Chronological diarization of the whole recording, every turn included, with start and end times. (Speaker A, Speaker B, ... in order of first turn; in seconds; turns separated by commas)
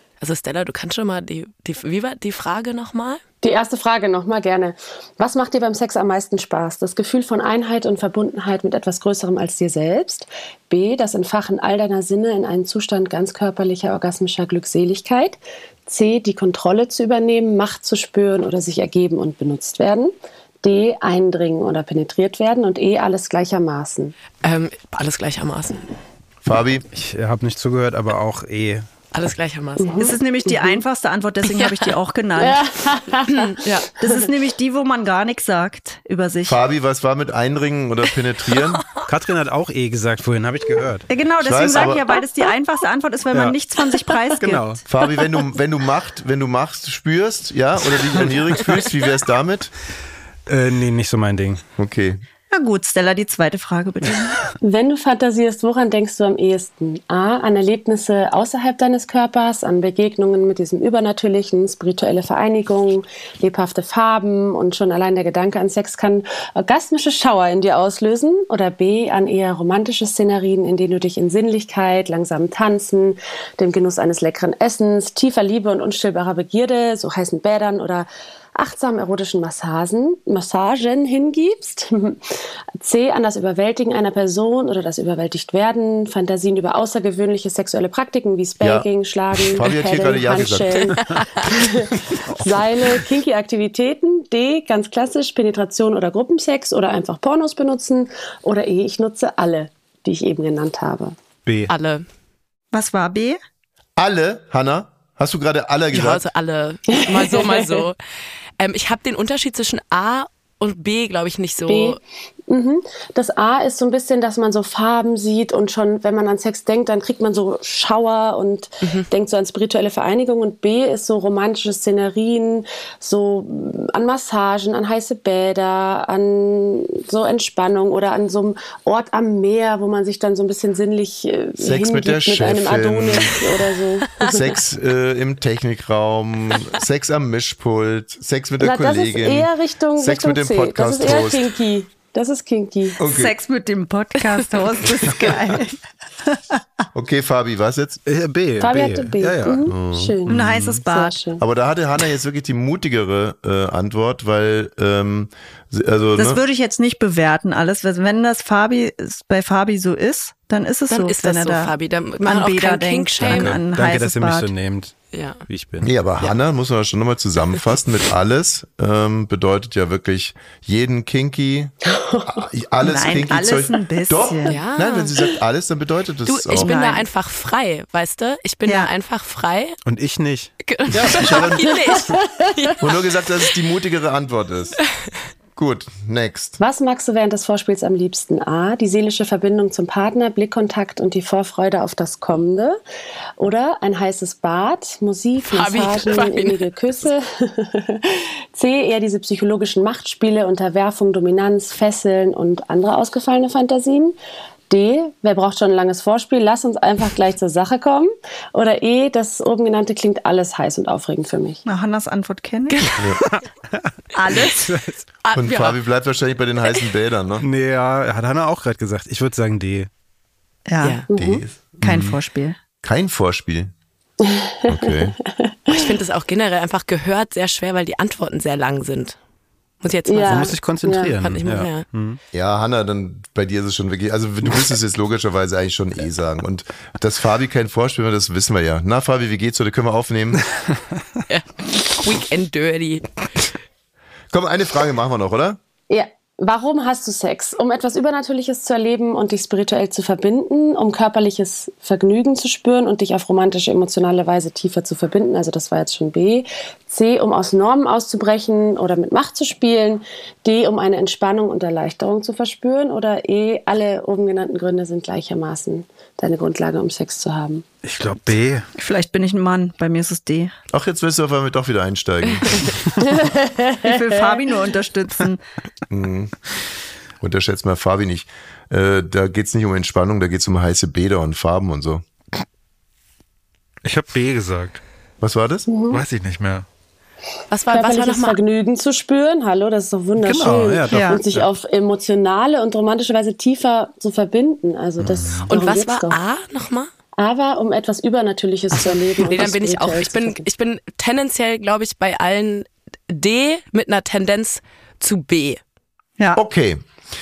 Speaker A: 0.2-3.2, Speaker B: 3.4-24.1, Speaker A: 24.4-25.8, Speaker C: 26.4-26.9, Speaker D: 26.9-28.9, Speaker A: 29.1-30.1, Speaker B: 29.8-30.8, Speaker E: 30.0-32.6, Speaker A: 31.4-31.9, Speaker B: 32.4-33.6, Speaker A: 33.3-33.9, Speaker E: 34.0-36.6, Speaker C: 36.5-38.9, Speaker D: 39.1-41.1, Speaker E: 41.1-44.8, Speaker C: 41.4-42.2, Speaker D: 44.4-44.8, Speaker C: 44.9-49.7, Speaker D: 50.5-51.6, Speaker C: 51.8-52.2, Speaker E: 52.5-54.4, Speaker B: 54.6-101.2, Speaker C: 88.6-91.0, Speaker D: 101.5-101.7, Speaker A: 101.7-102.0, Speaker E: 102.7-103.4, Speaker C: 104.0-106.2, Speaker A: 105.9-108.0, Speaker B: 106.9-107.8, Speaker A: 108.6-112.0, Speaker B: 111.7-134.6, Speaker A: 118.8-119.1, Speaker C: 131.6-133.4, Speaker C: 134.2-141.6, Speaker B: 138.6-143.0, Speaker C: 143.0-143.3, Speaker E: 143.0-146.6, Speaker C: 146.9-148.0, Speaker D: 148.1-149.7, Speaker B: 148.6-151.4, Speaker C: 149.7-150.2, Speaker D: 150.3-150.8, Speaker E: 150.3-151.2, Speaker C: 151.4-156.4, Speaker E: 156.2-164.5, Speaker A: 160.9-163.7, Speaker D: 163.2-164.9, Speaker A: 165.1-165.4, Speaker D: 165.5-166.3, Speaker C: 165.8-171.7, Speaker B: 171.9-172.4, Speaker C: 172.3-176.7, Speaker E: 172.8-174.6, Speaker A: 174.5-175.1, Speaker A: 176.3-179.8, Speaker E: 176.5-177.1, Speaker E: 178.7-178.9, Speaker D: 179.9-181.5, Speaker A: 180.6-182.8, Speaker C: 180.9-181.7, Speaker B: 181.6-182.7, Speaker C: 182.8-184.8, Speaker C: 185.6-186.6, Speaker B: 186.6-192.8, Speaker B: 193.4-204.2, Speaker A: 195.4-196.7, Speaker B: 204.7-211.6, Speaker E: 211.7-212.9, Speaker A: 212.7-213.0, Speaker C: 213.0-213.2, Speaker D: 213.2-213.9, Speaker E: 214.1-214.9, Speaker D: 214.4-215.0, Speaker A: 215.2-215.8, Speaker C: 215.3-217.5, Speaker D: 217.4-219.9, Speaker E: 220.7-221.1, Speaker A: 220.8-221.1, Speaker B: 221.1-221.4, Speaker C: 221.1-222.2, Speaker E: 221.8-222.6, Speaker C: 222.8-223.7, Speaker B: 224.2-224.9, Speaker C: 224.7-225.2, Speaker B: 225.4-225.9, Speaker A: 225.7-229.2, Speaker A: 229.8-231.9, Speaker B: 230.1-231.1, Speaker D: 230.2-232.2, Speaker C: 232.3-240.4, Speaker A: 241.3-243.1, Speaker C: 244.3-245.6, Speaker B: 245.9-267.6, Speaker D: 267.8-268.7, Speaker E: 268.8-270.5, Speaker C: 270.7-272.8, Speaker B: 273.1-273.9, Speaker E: 273.8-275.4, Speaker C: 275.9-276.4, Speaker C: 277.2-282.1, Speaker D: 283.8-284.8, Speaker C: 285.2-285.7, Speaker B: 285.7-286.0, Speaker D: 285.9-286.6, Speaker A: 287.5-288.4, Speaker B: 287.7-296.2, Speaker D: 290.2-291.5, Speaker E: 290.9-291.2, Speaker D: 295.0-295.5, Speaker A: 295.5-296.9, Speaker B: 297.2-300.4, Speaker A: 299.2-305.6, Speaker C: 306.4-306.8